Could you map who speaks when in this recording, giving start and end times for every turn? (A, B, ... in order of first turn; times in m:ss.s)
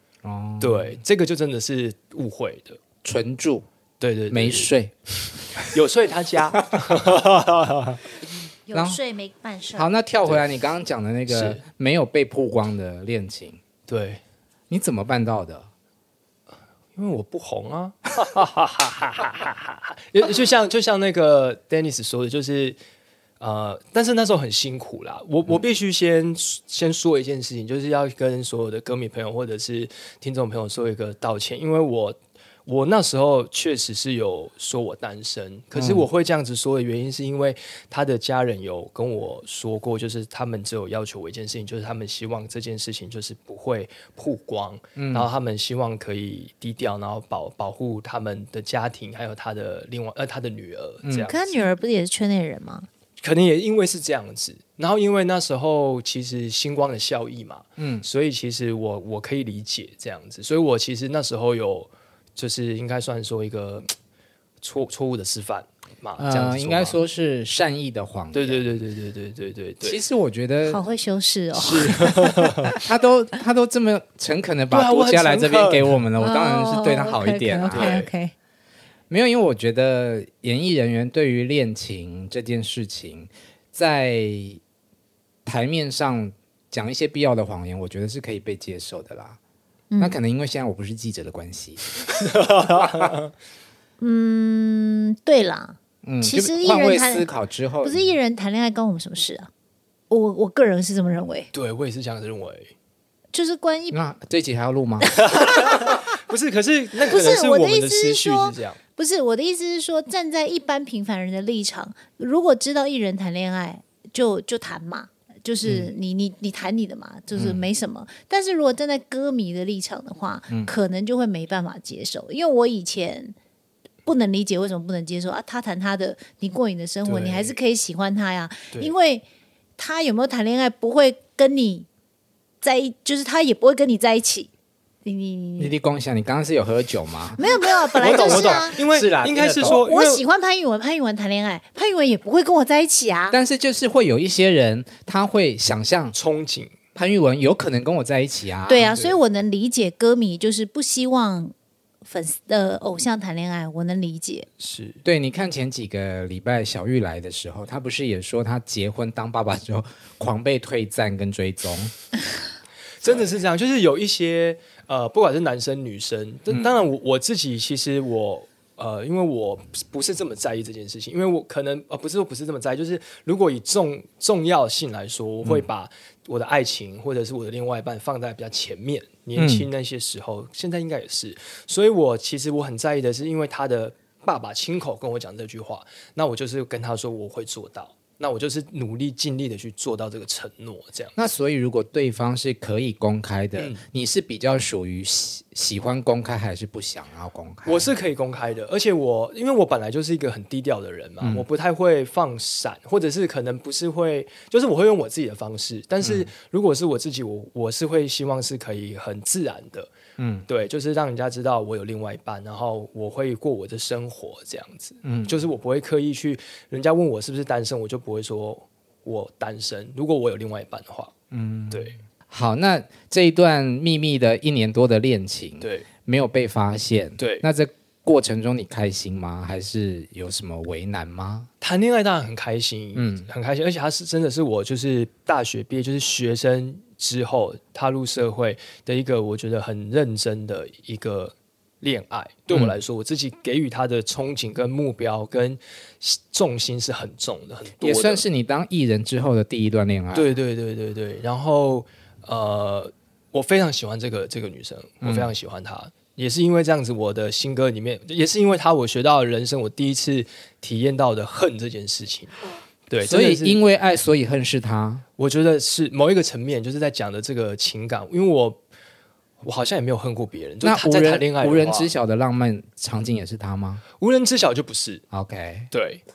0:00.2-0:01.0 A
0:00.6-0:02.8 B
0:03.0-0:03.6 A
0:04.0-0:04.7 B
0:04.3-0:04.9 A
0:05.7-0:08.0 B
0:08.6-0:09.9 C
0:09.7-0:13.6 A
0:11.3-0:11.6 B
0:13.9-0:14.2 B
0:14.7-0:15.7 A
0:16.9-0:22.8 B
0:23.4-0:51.6 B
0:35.8-0:36.0 A
0:45.0-0:45.3 A
0:51.0-0:51.3 A
0:51.3-0:52.9 C
0:53.2-1:03.9 B
0:57.8-0:58.0 A
1:04.6-1:07.0 B
1:06.2-1:08.6 A
1:08.3-1:10.0 B
1:09.8-1:10.8 A
1:10.7-1:12.5 C
1:11.6-1:11.9 A
1:11.6-1:12.7 B
1:12.6-1:18.0 A
1:14.7-1:16.0 B
1:16.2-1:18.3 C
1:17.7-1:18.1 B
1:19.1-1:24.6 A
1:25.4-1:29.4 A
1:29.9-1:30.2 C
1:30.0-1:33.1 A
1:32.1-1:33.3 B
1:34.0-1:37.3 C
1:36.0-1:38.1 A
1:37.8-1:39.5 C
1:40.1-1:41.5 C
1:41.5-1:42.7 B
1:43.3-1:44.0 C
1:43.9-1:45.1 A
1:45.2-1:45.7 C
1:45.2-1:48.8 B
1:47.1-2:03.4 C
1:57.3-1:57.6 A
2:04.0-2:09.2 C
2:07.0-2:07.6 B
2:09.8-2:11.9 C
2:12.6-2:14.5 C
2:15.0-2:15.7 C
2:15.6-2:17.4 A
2:17.4-2:18.8 C
2:18.0-2:20.2 B
2:18.0-2:19.8 A
2:19.6-2:23.4 C
2:23.3-2:26.2 A
2:26.1-2:26.7 B
2:26.9-2:29.0 A
2:28.7-2:31.5 C
2:32.0-2:34.5 C
2:34.6-2:35.0 B
2:35.0-2:41.9 A
2:43.0-3:11.1 B
2:59.4-2:59.7 A
3:11.2-3:17.9 A
3:13.6-3:13.8 B
3:17.6-3:29.9 B
3:26.0-3:26.3 A
3:30.2-3:30.5 A
3:30.5-3:41.1 B
3:35.0-3:35.4 A
3:41.3-3:51.5 A
3:41.7-3:42.0 B
3:45.6-3:45.8 B
3:47.2-3:47.4 B
3:51.6-4:08.2 B
3:52.9-3:53.3 A
4:02.5-4:02.8 A
4:07.8-4:10.3 A
4:10.1-4:22.3 B
4:15.0-4:15.3 A
4:22.9-4:23.6 B
4:23.0-4:25.0 A
4:25.2-4:28.6 B
4:29.4-4:31.9 B
4:30.6-4:33.8 A
4:34.0-4:35.0 B
4:35.1-4:35.7 A
4:35.7-4:36.0 B